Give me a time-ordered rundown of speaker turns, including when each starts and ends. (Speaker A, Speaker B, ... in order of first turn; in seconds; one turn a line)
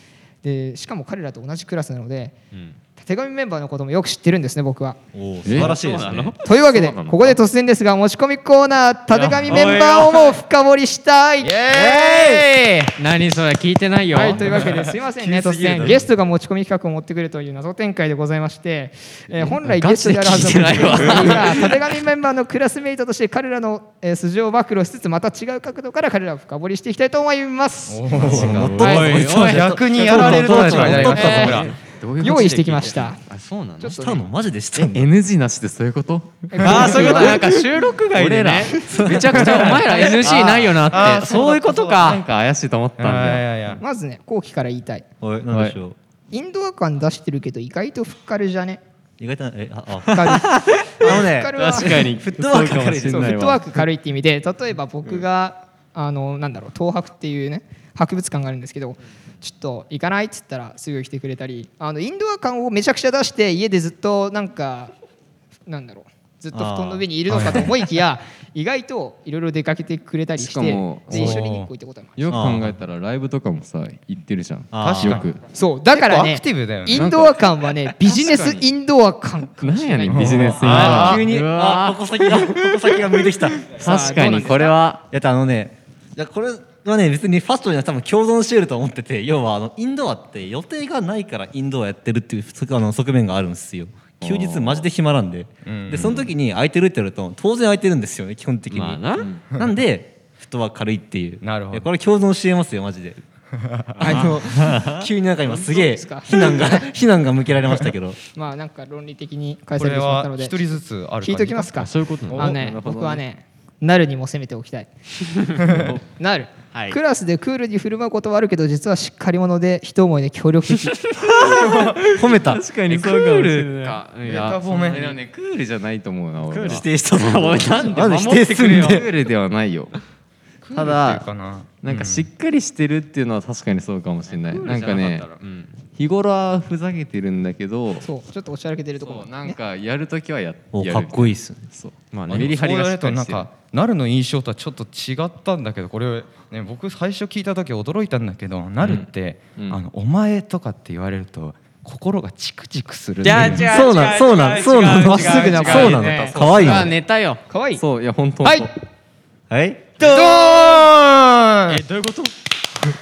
Speaker A: 0.4-2.4
Speaker B: 2.5-2.8
Speaker A: 3.0-5.0
Speaker C: 5.1-6.4
Speaker D: 5.4-5.8
Speaker B: 5.5-6.4
Speaker A: 6.4-12.9
Speaker D: 6.5-7.4
Speaker B: 9.1-10.4
Speaker E: 11.4-12.5
Speaker B: 12.9-14.6
Speaker A: 14.1-29.2
Speaker E: 14.4-14.9
Speaker C: 15.2-16.0
Speaker B: 19.6-21.9
Speaker E: 27.9-31.8
Speaker C: 28.1-31.7
Speaker D: 28.3-28.8
Speaker B: 28.3-31.7
Speaker A: 31.1-33.2
Speaker D: 31.8-33.5
Speaker B: 32.8-33.9
Speaker A: 33.8-34.2
Speaker C: 34.0-35.0
Speaker D: 34.8-37.5
Speaker A: 36.5-37.5
Speaker B: 36.6-42.2
Speaker D: 38.1-39.1
Speaker C: 38.9-40.6
Speaker E: 39.3-42.2
Speaker D: 40.3-40.6
Speaker D: 42.0-43.5
Speaker E: 43.0-43.8
Speaker A: 43.8-45.0
Speaker C: 45.2-46.0
Speaker D: 45.5-45.8
Speaker A: 46.3-48.8
Speaker C: 49.2-53.5
Speaker A: 50.1-52.1
Speaker B: 50.3-50.9
Speaker D: 51.5-53.8
Speaker A: 53.0-64.9
Speaker A: 65.7-72.3
Speaker C: 66.5-67.7
Speaker D: 70.4-71.5
Speaker E: 71.1-71.7
Speaker D: 72.2-75.4
Speaker C: 72.3-72.8
Speaker C: 74.7-75.2
Speaker E: 74.8-75.3
Speaker A: 75.5-80.9
Speaker E: 75.9-77.1
Speaker D: 76.9-78.7
Speaker D: 79.6-83.0
Speaker E: 80.1-81.3
Speaker C: 80.6-84.4
Speaker D: 83.6-85.0
Speaker A: 83.8-84.8
Speaker C: 85.0-103.2
Speaker D: 94.2-94.8
Speaker E: 95.7-96.3
Speaker B: 98.7-99.2
Speaker E: 101.4-101.9
Speaker E: 103.6-104.8
Speaker C: 104.0-108.2
Speaker A: 104.0-104.3
Speaker A: 105.4-106.9
Speaker A: 108.3-110.6
Speaker E: 109.8-112.8
Speaker A: 111.2-114.9
Speaker D: 112.0-113.2
Speaker C: 112.5-113.0
Speaker E: 115.6-116.0
Speaker A: 116.1-121.0
Speaker B: 116.7-117.0
Speaker C: 121.2-122.7
Speaker E: 121.4-122.1
Speaker D: 122.4-129.9
Speaker B: 122.8-124.6
Speaker E: 124.2-125.2
Speaker B: 126.5-129.0
Speaker C: 126.7-129.0
Speaker E: 130.6-132.3
Speaker C: 130.7-131.3
Speaker D: 131.8-135.3
Speaker B: 134.3-135.8
Speaker D: 135.9-138.1
Speaker A: 138.0-139.6
Speaker D: 139.0-143.5
Speaker C: 140.7-141.7
Speaker E: 142.3-153.9
Speaker D: 149.5-149.8
Speaker B: 153.2-157.4
Speaker C: 153.3-156.9
Speaker A: 155.0-156.7
Speaker D: 156.5-156.9
Speaker A: 157.5-157.8
Speaker D: 157.8-158.7
Speaker A: 158.4-158.7
Speaker C: 159.5-159.9
Speaker E: 160.0-161.8
Speaker A: 160.0-160.8
Speaker B: 161.7-162.3